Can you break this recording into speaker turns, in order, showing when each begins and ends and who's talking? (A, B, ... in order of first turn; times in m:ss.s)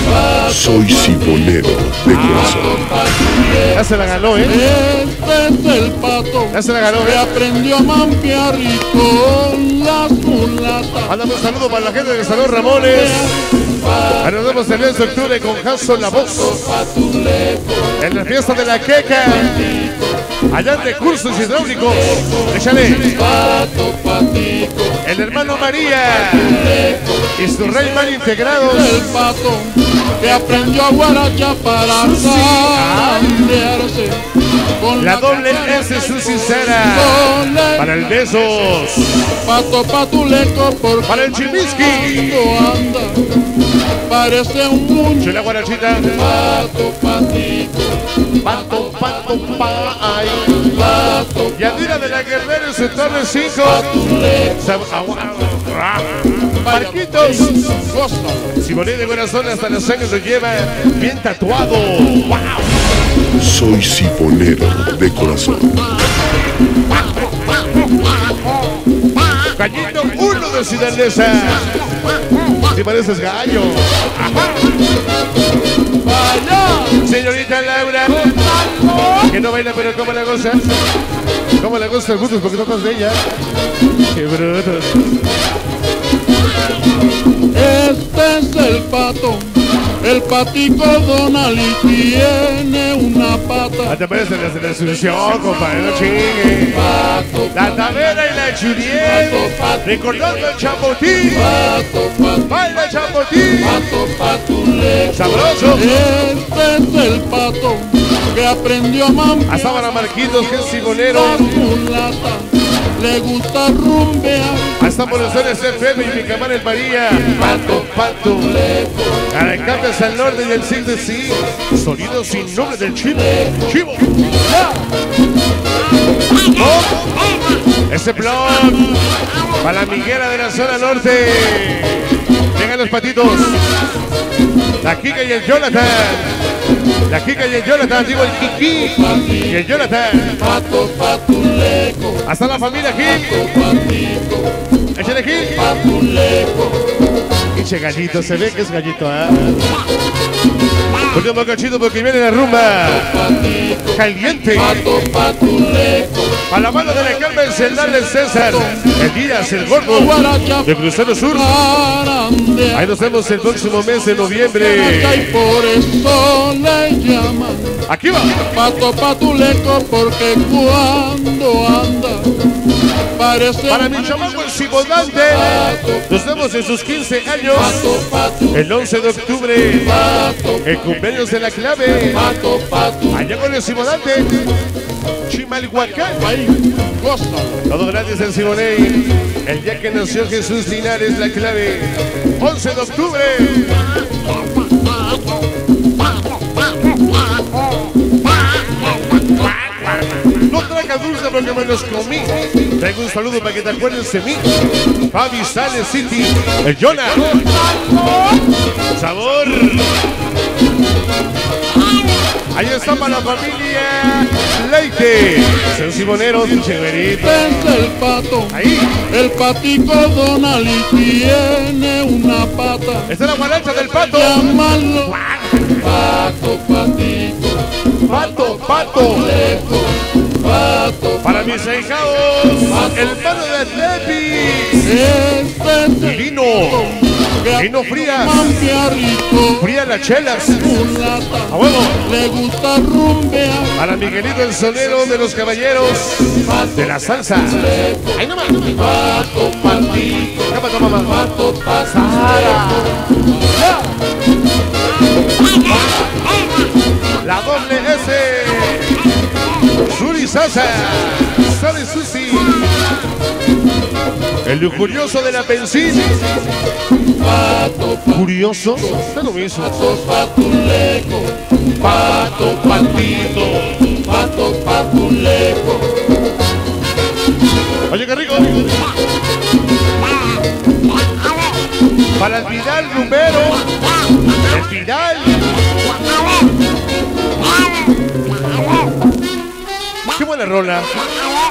0:00.4-0:02.9 A
0:02.1-0:02.5 B
0:02.2-0:03.8 C
0:03.7-0:04.6 B
0:04.5-0:11.1 C
0:06.5-0:07.2 B
0:11.1-0:13.3 B
0:12.9-0:14.2 C
0:14.2-0:16.7 B
0:16.4-0:17.9 C
0:18.0-0:19.7 B
0:19.4-0:19.9 C
0:20.5-0:23.2 B
0:23.0-0:25.0 C
0:25.0-0:29.0 B
0:28.6-0:34.2 C
0:32.1-0:33.5 B
0:34.8-0:38.2 C
0:35.0-0:39.3 B
0:39.4-0:43.2 C
0:41.1-0:42.5 B
0:44.1-0:45.4 C
0:45.2-0:46.2 B
0:46.1-0:48.0 C
0:48.4-0:50.6 B
0:50.6-0:51.8 C
0:51.6-0:57.6 B
0:54.0-0:54.5 C
0:56.6-0:58.6 C
0:58.6-1:02.6 B
1:03.4-1:05.9 A
1:09.6-1:11.7 B
1:12.7-1:14.2 B
1:16.0-1:17.0 C
1:17.0-1:18.3 B
1:18.1-1:19.3 C
1:19.2-1:20.6 B
1:21.6-1:23.2 B
1:24.1-1:25.0 B
1:27.5-1:34.0 C
1:33.9-1:36.9 B
1:36.7-1:38.0 C
1:37.5-1:41.5 B
1:38.9-1:40.3 C
1:41.3-1:42.5 C
1:42.5-1:43.8 B
1:43.6-1:49.8 C
1:45.1-1:45.9 B
1:49.5-1:51.7 B
1:51.0-1:54.8 C
1:54.8-1:58.6 B
1:59.3-2:04.2 B
2:06.5-2:07.1 B
2:07.9-2:08.9 B
2:09.6-2:13.6 B
2:14.8-2:16.4 B
2:17.1-2:20.4 B
2:18.9-2:19.5 C
2:20.4-2:22.2 C
2:22.2-2:23.6 B
2:23.2-2:24.4 C
2:25.0-2:25.8 B
2:25.6-2:26.8 C
2:27.5-2:29.6 B
2:31.1-2:34.8 B
2:33.2-2:33.9 C
2:34.5-2:36.4 C
2:36.5-2:41.5 B
2:38.4-2:38.8 C
2:39.9-2:40.8 C
2:41.3-2:42.9 C
2:42.7-2:45.4 B
2:44.5-2:47.8 C
2:47.9-2:48.5 B
2:48.5-2:52.3 C
2:53.2-2:54.2 C
2:53.7-2:57.9 B
2:55.3-2:56.0 C
2:57.6-2:58.5 C
2:58.5-3:00.0 B
2:59.9-3:00.7 C
3:00.6-3:02.2 B
3:02.1-3:03.2 C
3:03.1-3:04.4 B
3:05.3-3:06.3 B
3:06.2-3:07.6 C
3:07.7-3:13.9 B
3:20.5-3:24.5 B
3:25.1-3:27.4 B
3:27.5-3:28.2 C
3:28.9-3:29.9 B
3:32.5-3:37.6 B
3:37.2-3:43.1 C
3:38.5-3:39.0 B
3:43.1-3:45.8 B
3:44.1-3:47.6 C
3:48.1-3:49.3 B
3:48.8-3:51.5 C
3:51.2-3:54.9 B
3:52.7-3:53.0 C
3:54.8-3:56.9 C
3:56.0-3:58.5 B
3:57.4-3:59.7 C
3:59.6-4:00.7 B
4:00.5-4:03.8 C
4:01.5-4:02.1 B
4:03.8-4:13.1 B
4:07.7-4:08.1 C
4:09.2-4:10.2 C
4:11.1-4:12.3 C
4:17.2-4:19.0 B
4:19.9-4:22.6 B
4:24.4-4:26.1 B
4:27.2-4:28.2 C
4:28.1-4:30.0 B
4:29.7-4:31.4 C
4:31.8-4:33.8 B
4:32.1-4:32.7 C
4:34.0-4:35.9 C
4:37.9-4:38.7 B
4:42.2-4:43.6 B
4:44.5-4:45.5 B
4:50.2-4:50.9 B